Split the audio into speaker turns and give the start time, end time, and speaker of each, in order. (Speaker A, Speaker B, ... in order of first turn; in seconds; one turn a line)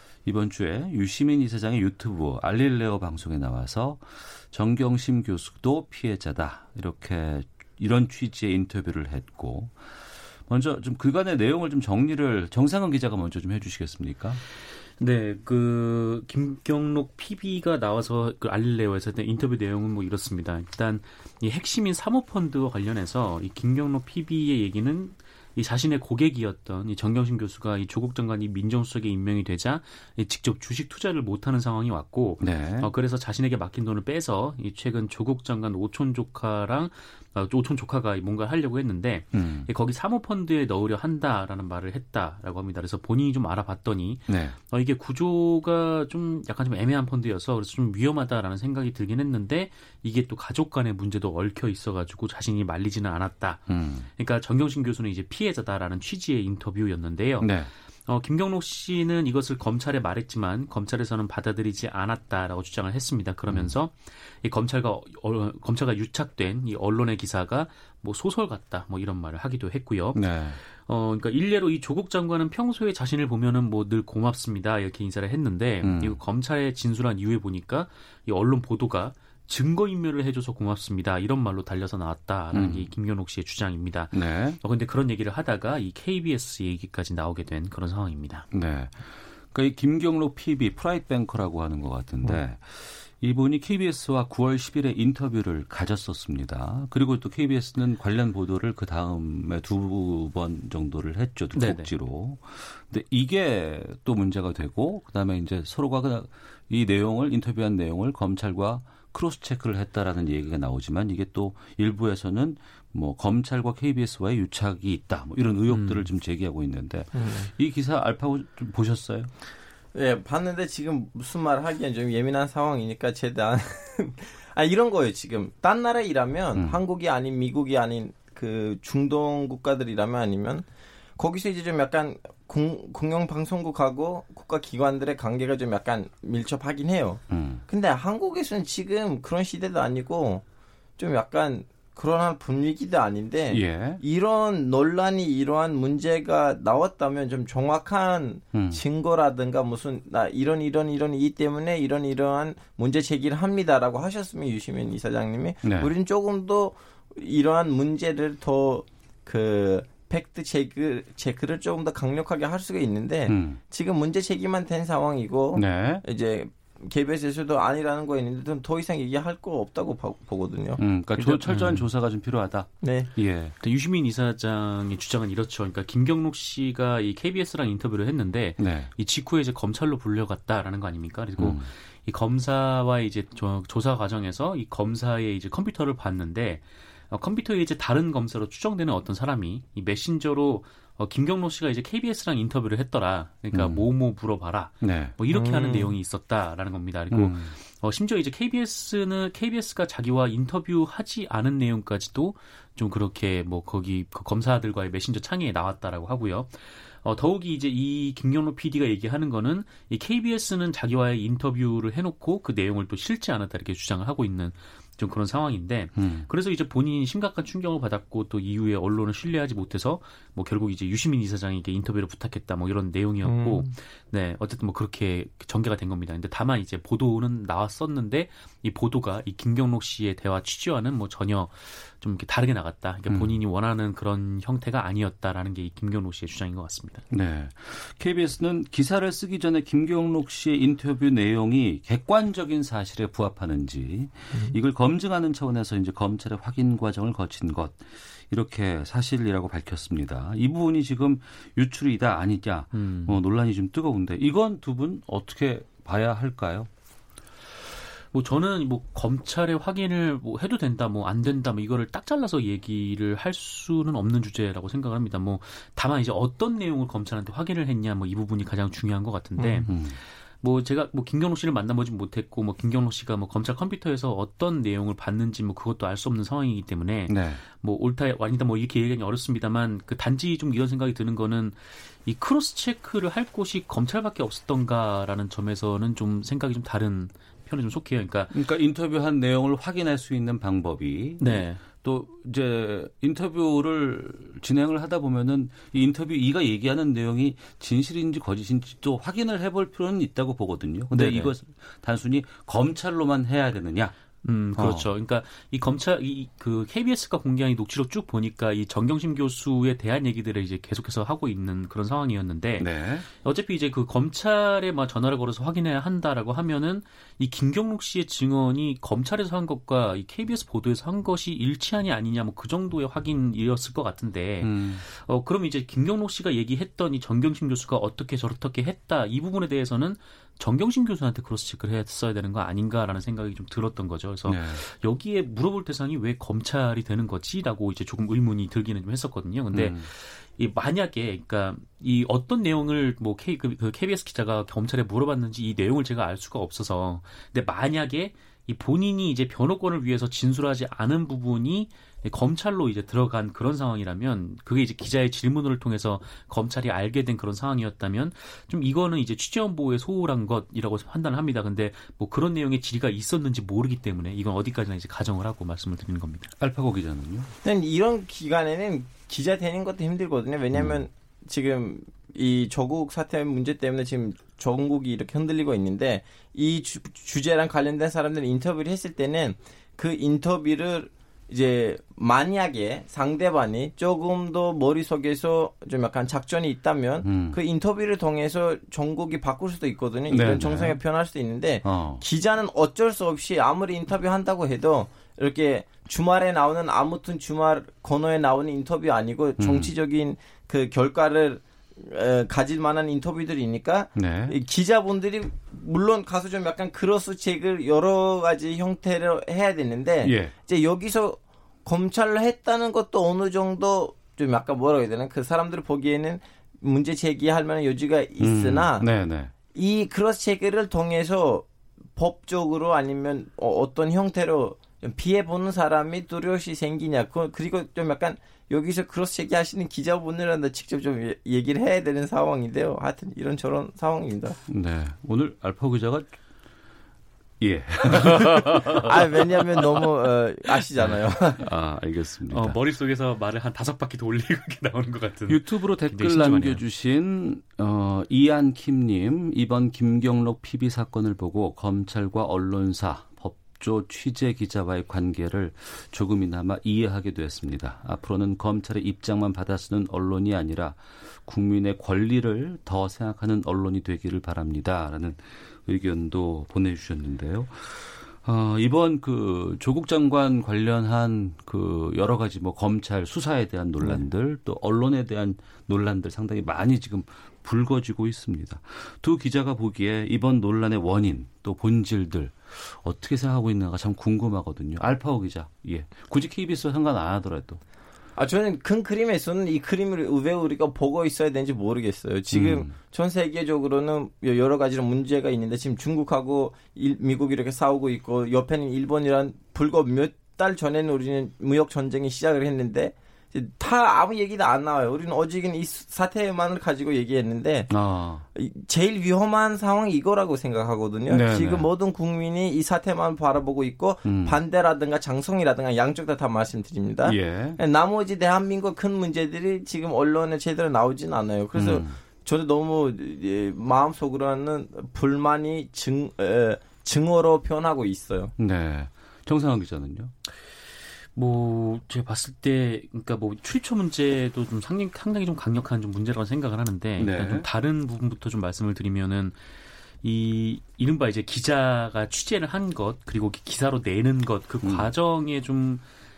Speaker A: 0.2-9.7
Speaker A: 10.5-14.4
Speaker B: 15.0-57.5
Speaker A: 32.4-32.9
Speaker A: 39.3-39.7
Speaker A: 44.3-44.6
Speaker A: 53.7-54.1
Speaker A: 57.4-57.7
Speaker B: 58.1-88.5
Speaker A: 70.1-70.6
Speaker A: 75.8-76.2
Speaker A: 82.5-82.9
Speaker A: 84.1-84.6
Speaker A: 88.5-119.3
Speaker B: 101.5-101.9
Speaker B: 115.7-116.1
Speaker C: 117.1-117.5
Speaker C: 119.9-130.6
Speaker C: 131.2-140.4
Speaker A: 137.3-137.6
Speaker C: 141.0-170.8
Speaker A: 143.5-144.0
Speaker A: 148.5-148.8
Speaker A: 155.6-155.9
Speaker A: 163.3-163.6
Speaker A: 165.5-166.0
Speaker A: 170.8-173.5
Speaker B: 171.1-171.9
Speaker C: 172.8-173.1
Speaker B: 173.6-237.1
Speaker A: 178.6-178.9
Speaker A: 181.4-181.7
Speaker A: 193.5-193.9
Speaker A: 194.8-195.1
Speaker C: 195.3-195.9
Speaker A: 197.1-197.6
Speaker A: 215.9-216.3
Speaker C: 223.2-223.7
Speaker A: 233.1-233.4
Speaker A: 237.1-256.7
Speaker B: 252.7-253.2
Speaker B: 258.1-269.8
Speaker C: 269.4-269.6
Speaker A: 269.7-270.0
Speaker B: 270.4-288.4
Speaker A: 277.1-277.4
Speaker A: 288.3-303.9
Speaker B: 291.2-291.6
Speaker B: 300.9-301.3
Speaker B: 304.2-366.3
Speaker A: 304.5-304.9
Speaker A: 312.6-313.1
Speaker A: 324.4-324.8
Speaker A: 334.3-334.6
Speaker A: 339.5-339.9
Speaker A: 366.4-367.3
Speaker C: 367.4-418.9
Speaker A: 370.5-370.8
Speaker A: 387.0-387.4
Speaker A: 390.1-390.8
Speaker A: 391.6-392.0
Speaker A: 399.4-399.7
Speaker A: 403.9-404.4
Speaker A: 410.0-410.3
Speaker A: 418.2-419.3
Speaker C: 419.5-421.4
Speaker C: 422.0-434.4
Speaker A: 434.5-436.1
Speaker A: 437.4-439.9
Speaker C: 437.9-441.4
Speaker A: 440.7-442.6
Speaker B: 442.3-446.6
Speaker A: 445.3-487.6
Speaker C: 488.2-507.7
Speaker A: 492.3-492.7
Speaker A: 507.7-508.2
Speaker C: 508.3-528.3
Speaker A: 511.1-511.7
Speaker A: 514.0-514.4
Speaker A: 517.0-517.6
Speaker A: 521.5-522.0
Speaker A: 528.4-530.1
Speaker B: 531.1-539.4
Speaker A: 537.0-537.5
Speaker B: 540.0-545.8
Speaker A: 544.6-544.9